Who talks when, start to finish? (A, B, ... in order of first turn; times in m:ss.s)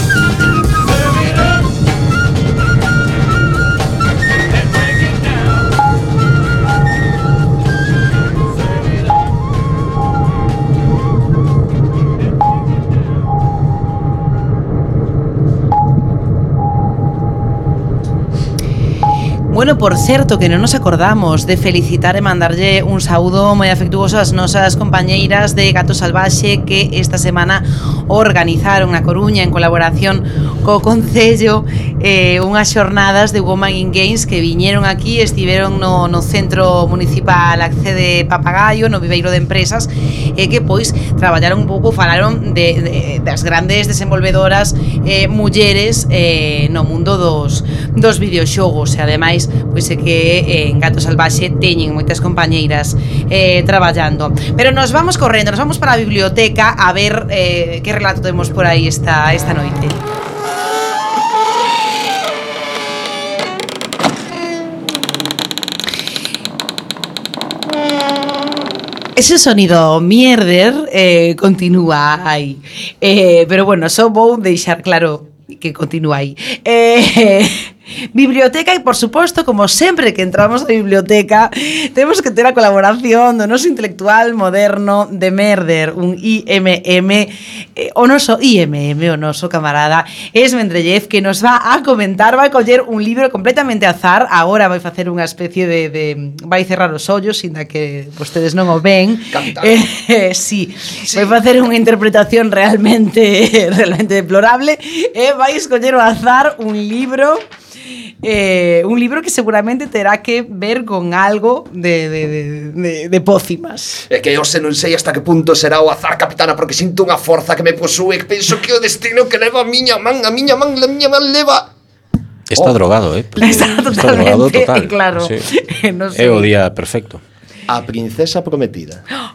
0:19.5-1:00.0 A
1:09.1-1:47.4 A
1:39.3-1:39.9 B
1:41.0-1:41.4 B
1:48.2-1:54.0 A
1:54.1-2:01.7 B
2:02.5-2:05.4 C
2:03.4-2:04.9 B
2:03.4-2:06.5 A
2:06.1-2:07.2 C
2:07.7-2:09.0 B